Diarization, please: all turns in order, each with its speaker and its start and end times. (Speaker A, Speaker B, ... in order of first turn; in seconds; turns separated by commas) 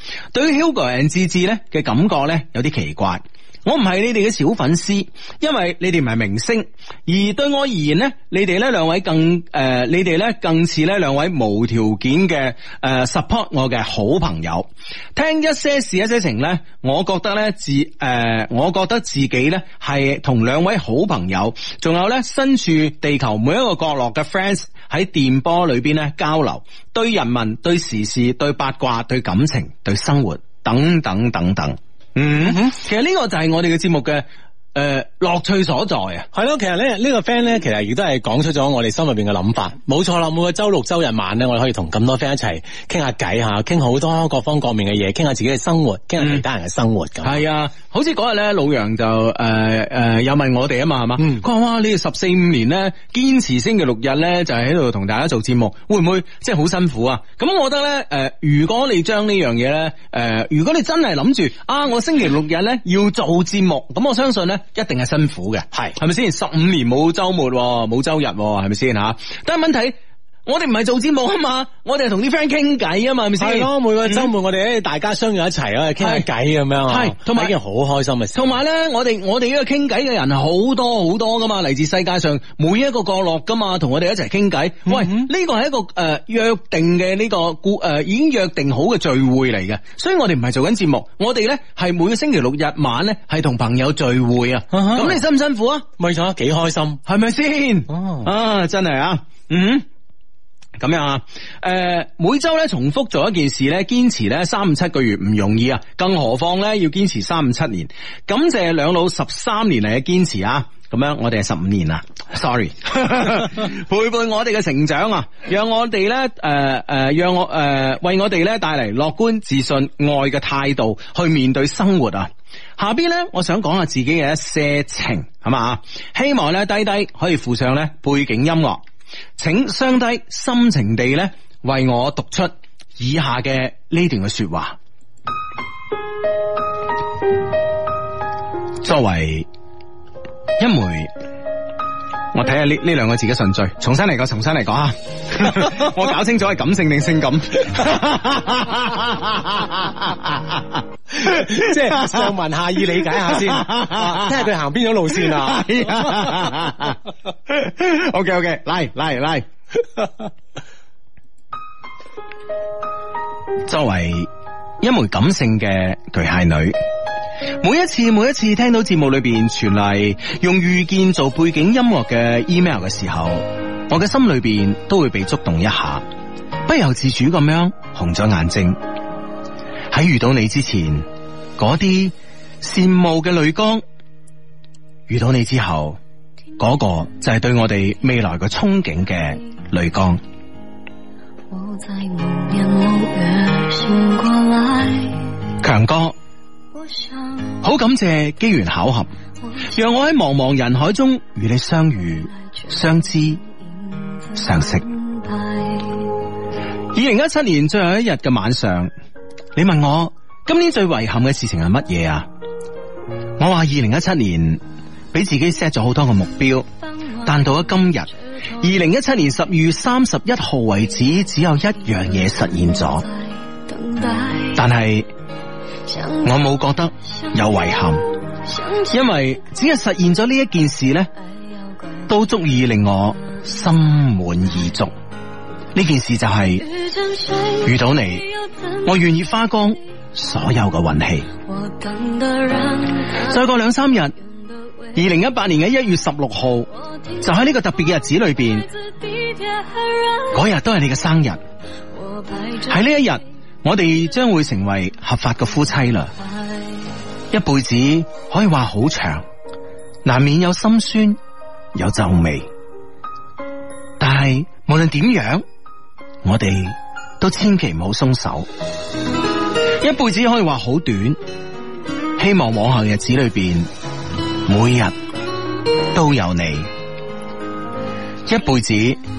Speaker A: 0.3-36.3, Speaker B: 32.4-32.8, Speaker B: 36.3-47.4, Speaker A: 47.2-74.3, Speaker B: 51.2-51.5, Speaker B: 73.4-78.6, Speaker A: 76.0-76.3, Speaker A: 76.9-77.5, Speaker A: 78.3-95.9, Speaker B: 84.9-85.3, Speaker B: 94.7-95.2, Speaker B: 96.0-97.0, Speaker A: 97.0-99.8, Speaker B: 97.9-98.3, Speaker A: 100.8-128.8, Speaker A: 129.4-134.8, Speaker A: 138.8-139.5, Speaker A: 140.6-141.1, Speaker A: 142.3-152.3, Speaker B: 151.1-156.5, Speaker A: 152.9-154.4, Speaker A: 155.2-159.5, Speaker A: 163.7-164.3, Speaker A: 164.8-166.8, Speaker A: 167.6-176.1, Speaker A: 176.7-178.8, Speaker A: 179.9-181.1, Speaker A: 181.6-183.8, Speaker A: 185.1-186.0, Speaker A: 186.6-190.2, Speaker C: 191.5-195.4, Speaker A: 195.6-196.2, Speaker C: 196.7-197.7, Speaker A: 197.6-199.1, Speaker C: 199.4-199.8, Speaker A: 199.7-203.4, Speaker C: 202.3-206.3, Speaker A: 204.4-204.8, Speaker A: 206.9-208.9, Speaker A: 209.6-212.3, Speaker A: 213.4-214.6, Speaker A: 215.1-216.7, Speaker C: 216.9-218.7, Speaker A: 217.2-223.1, Speaker C: 222.0-224.7, Speaker A: 224.6-225.1, Speaker C: 225.9-229.1, Speaker A: 226.2-228.1, Speaker A: 228.9-231.1, Speaker C: 231.2-232.3, Speaker A: 232.1-234.9, Speaker C: 233.3-233.8, Speaker A: 235.7-236.7, Speaker C: 236.6-239.0, Speaker A: 237.6-238.3, Speaker A: 238.8-241.3, Speaker C: 241.4-243.5, Speaker A: 243.2-244.1, Speaker C: 244.2-245.3, Speaker A: 244.9-246.7, Speaker C: 246.7-250.5, Speaker A: 247.2-248.7, Speaker A: 250.3-251.4, Speaker C: 251.9-253.1, Speaker A: 252.7-256.1, Speaker C: 256.2-257.0, Speaker A: 257.3-259.2, Speaker A: 260.1-261.2, Speaker A: 261.8-262.5, Speaker A: 264.0-265.4, Speaker A: 266.2-268.5, Speaker A: 269.8-271.2, Speaker A: 272.2-273.7, Speaker A: 274.5-274.9, Speaker A: 275.9-276.7, Speaker A: 278.3-279.0